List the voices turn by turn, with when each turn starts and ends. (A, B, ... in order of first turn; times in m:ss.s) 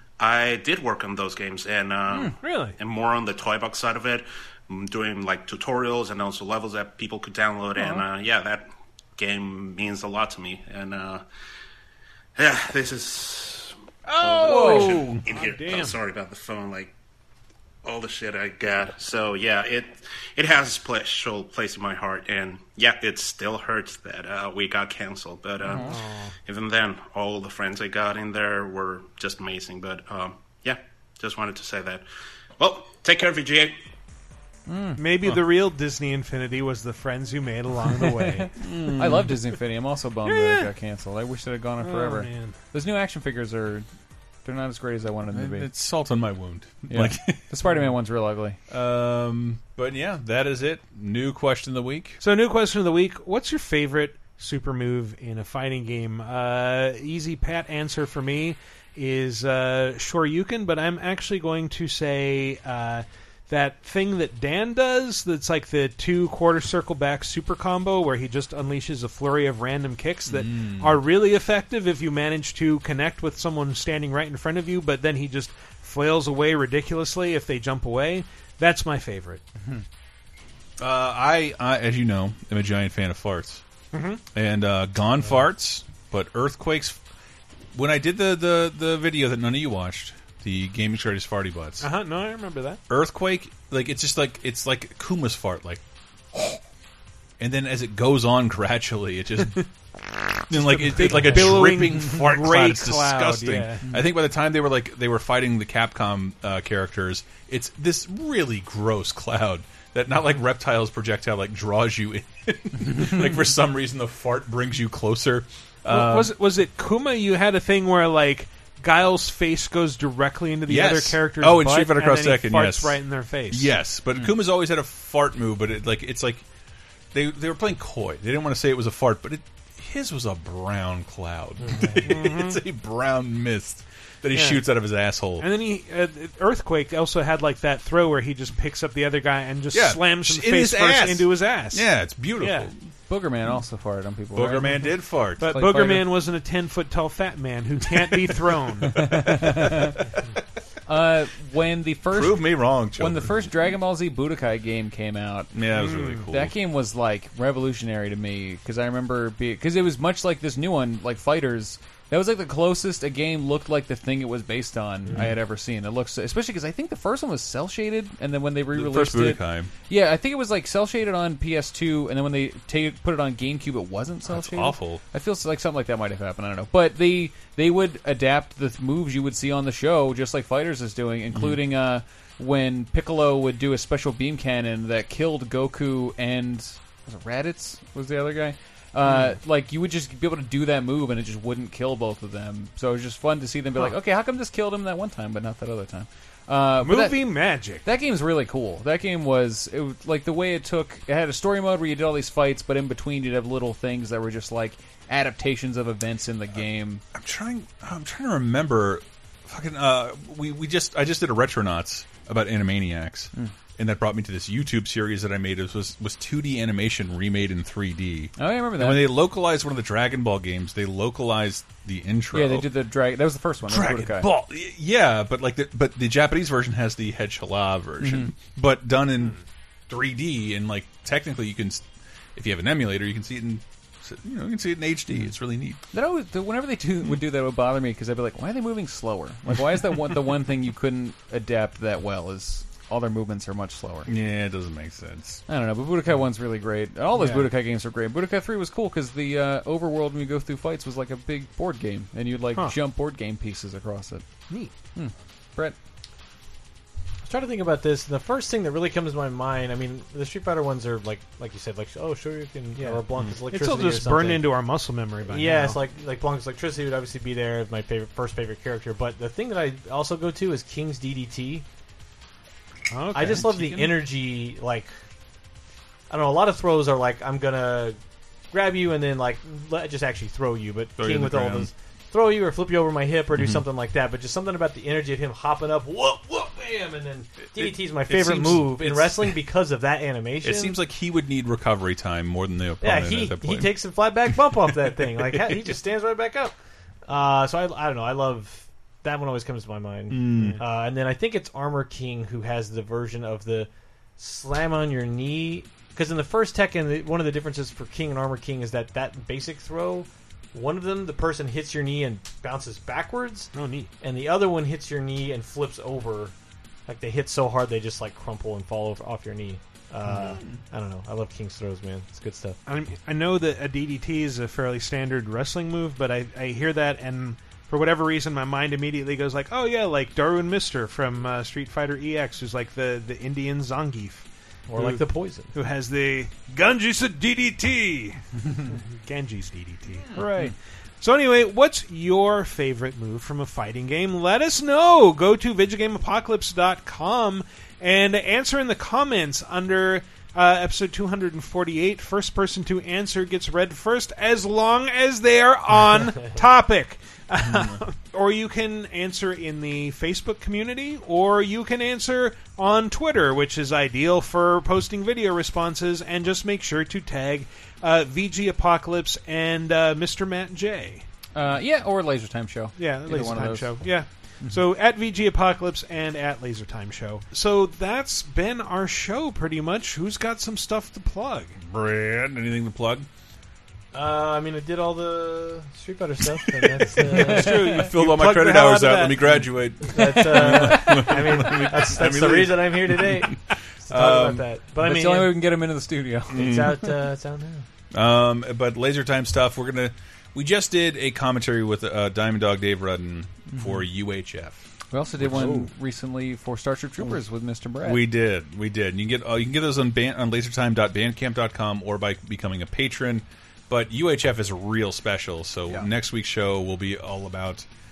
0:00.2-0:11.2 A
0:02.4-0:02.8 B
0:07.8-0:08.0 C
0:12.4-0:16.9 A
0:14.1-0:15.2 D
0:14.4-0:16.0 B
0:17.8-0:32.1 A
0:25.6-0:26.0 C
0:25.8-0:26.3 B
0:32.6-0:33.8 A
0:34.7-0:35.0 C
0:35.0-0:38.5 B
0:38.0-0:43.9 C
0:38.6-0:39.3 D
0:40.3-0:40.7 B
0:41.8-0:42.6 B
0:44.4-0:45.7 C
0:45.3-0:47.5 D
0:46.9-0:48.6 C
0:47.6-0:47.9 B
0:48.7-0:52.2 D
0:52.2-1:19.4 B
1:10.3-1:11.0 D
1:20.8-1:23.6 D
1:23.9-1:24.2 B
1:24.3-1:27.0 D
1:27.7-1:31.9 D
1:31.8-1:32.8 B
1:32.9-1:35.8 D
1:37.4-1:39.6 D
1:40.5-1:56.3 D
1:40.5-1:43.9 B
1:55.9-2:03.8 B
2:00.7-2:03.0 D
2:03.5-2:06.4 D
2:07.1-2:15.5 D
2:12.0-2:12.6 B
2:14.3-2:14.6 B
2:15.4-2:22.7 B
2:19.7-2:22.8 D
2:23.1-2:26.1 C
2:24.3-2:25.5 D
2:25.4-2:29.3 B
2:28.9-2:30.0 C
2:29.0-2:29.9 D
2:30.9-2:35.5 C
2:32.1-2:33.4 D
2:35.5-2:36.5 D
2:35.7-2:36.2 B
2:36.3-3:27.0 C
2:45.1-2:45.4 D
2:48.7-2:49.7 D
2:54.3-2:55.0 D
3:09.0-3:09.4 B
3:16.8-3:17.9 B
3:27.1-3:42.7 D
3:38.4-3:39.1 C
3:42.3-3:44.3 C
3:43.7-3:49.4 D
3:48.0-3:48.3 C
3:49.9-3:51.8 D
3:52.4-3:55.8 D
3:55.9-4:04.1 C
4:04.1-4:05.4 D
4:05.5-4:14.2 C
4:07.1-4:07.5 B
4:15.0-4:15.8 C
4:17.2-4:24.5 E
4:22.8-4:25.8 B
4:25.2-4:31.7 E
4:32.9-4:34.1 B
4:33.1-4:34.9 E
4:36.1-4:38.0 E
4:38.5-4:50.8 E
4:41.0-4:41.7 D
4:43.4-4:43.6 D
4:47.6-4:49.4 D
4:50.4-4:53.8 D
4:52.8-4:56.6 E
4:55.0-4:55.4 D
4:57.1-5:16.3 E
5:00.1-5:00.6 D
5:13.5-5:13.9 B
5:16.9-5:22.6 E
5:22.7-6:11.0 B
5:34.7-5:35.5 E
5:40.2-5:40.5 C
6:11.4-6:13.8 C
6:12.8-6:21.6 B
6:21.6-6:23.1 D
6:23.9-6:29.1 E
6:26.6-6:34.5 D
6:27.1-6:29.3 B
6:29.8-6:35.4 E
6:30.5-6:31.1 C
6:34.8-6:36.7 C
6:36.3-6:36.8 D
6:36.3-6:37.7 E
6:37.9-6:44.7 D
6:43.6-6:43.8 C
6:44.9-6:48.1 C
6:45.2-6:45.7 D
6:47.8-6:57.7 D